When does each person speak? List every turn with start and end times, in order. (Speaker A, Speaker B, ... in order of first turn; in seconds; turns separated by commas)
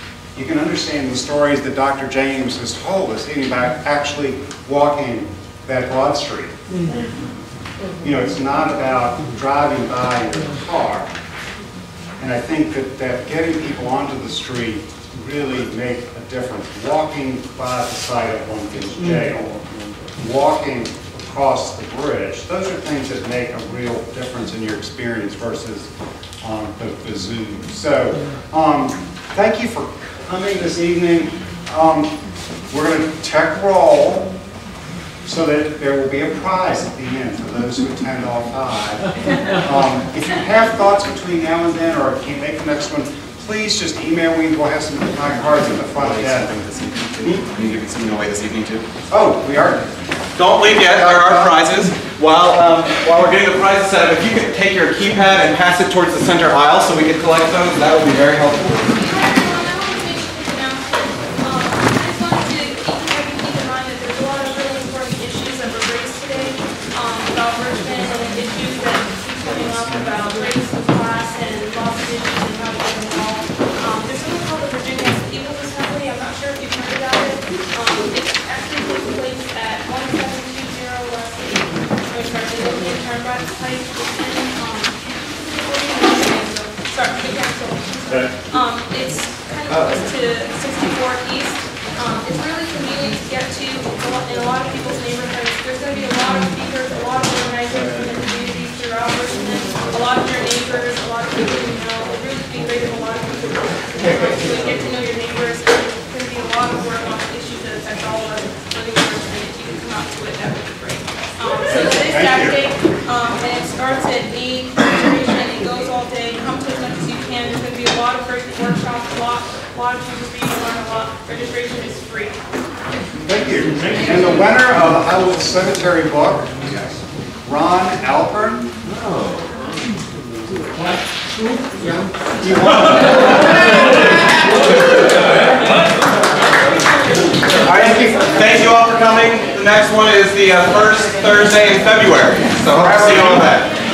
Speaker A: 0.3-6.5, Speaker A: 8.0-11.1, Speaker A: 12.2-19.6, Speaker A: 20.2-25.9, Speaker A: 26.4-32.1, Speaker A: 32.7-34.3, Speaker A: 35.3-46.5, Speaker B: 46.0-48.9, Speaker A: 49.1-50.0, Speaker B: 50.4-58.9, Speaker A: 50.6-51.6, Speaker C: 59.0-122.4, Speaker A: 88.1-88.5, Speaker A: 89.7-90.0, Speaker A: 111.7-112.6, Speaker A: 123.2-126.8, Speaker A: 127.5-128.7, Speaker A: 132.4-133.2, Speaker B: 132.7-133.6, Speaker B: 137.6-143.7